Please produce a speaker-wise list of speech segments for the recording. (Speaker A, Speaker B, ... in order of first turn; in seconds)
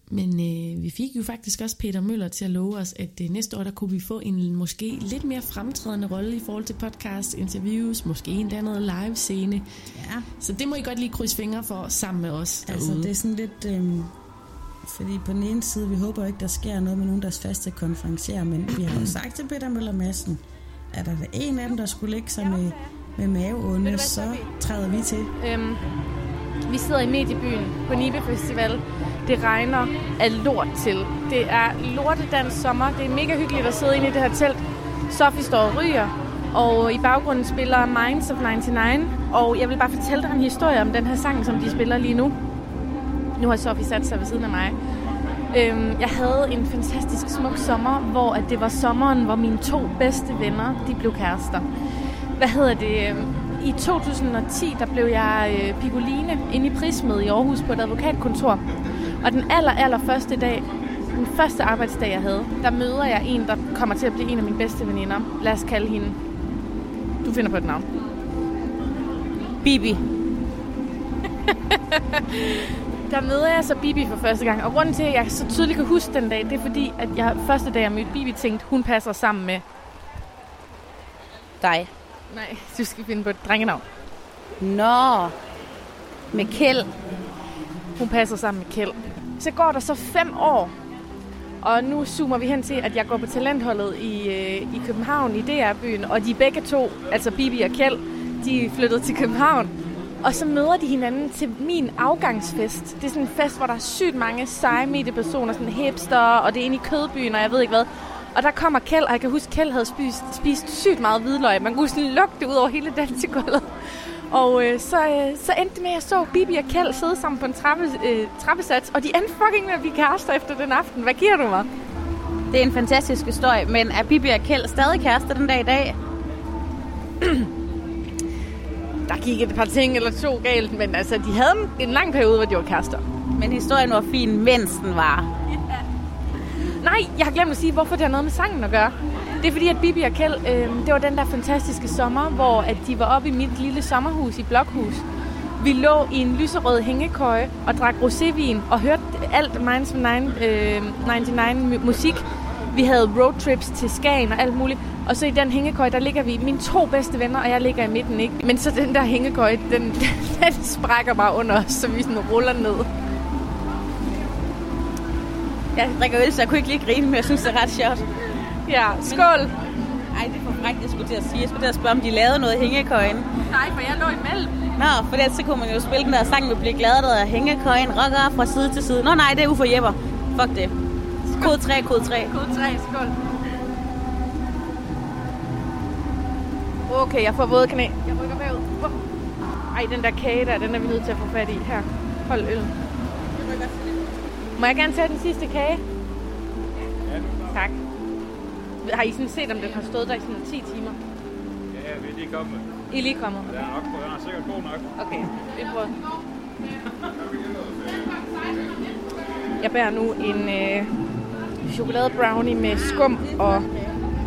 Speaker A: 0.1-9.7, 10.4-13.1
Speaker B: 9.9-10.3, 12.7-14.1, 14.8-25.3
Speaker C: 23.8-24.4, 25.4-25.8, 26.7-42.4, 43.4-44.8, 45.5-51.7, 52.4-58.6, 59.2-66.2, 67.2-67.9, 71.5-79.6, 82.3-83.8, 88.0-90.7, 91.6-121.7, 127.2-127.5, 129.1-133.0, 136.8-145.0, 145.6-162.9, 168.7-169.5, 173.5-174.6, 181.3-181.6, 182.2-183.2, 186.9-189.0, 189.7-192.7, 194.6-195.8, 197.5-197.8, 198.8-201.0, 202.9-203.6, 205.0-205.9, 209.6-210.9, 211.7-213.7
Speaker D: 69.6-70.0, 81.6-81.9, 84.6-85.3, 86.3-86.9, 122.5-126.0, 133.4-135.3, 165.8-168.1, 169.1-169.3, 170.1-173.3, 174.8-180.7, 181.3-182.3, 193.3-194.0, 212.8-214.0
Speaker E: 197.1-197.6, 201.7-202.7, 203.5-204.9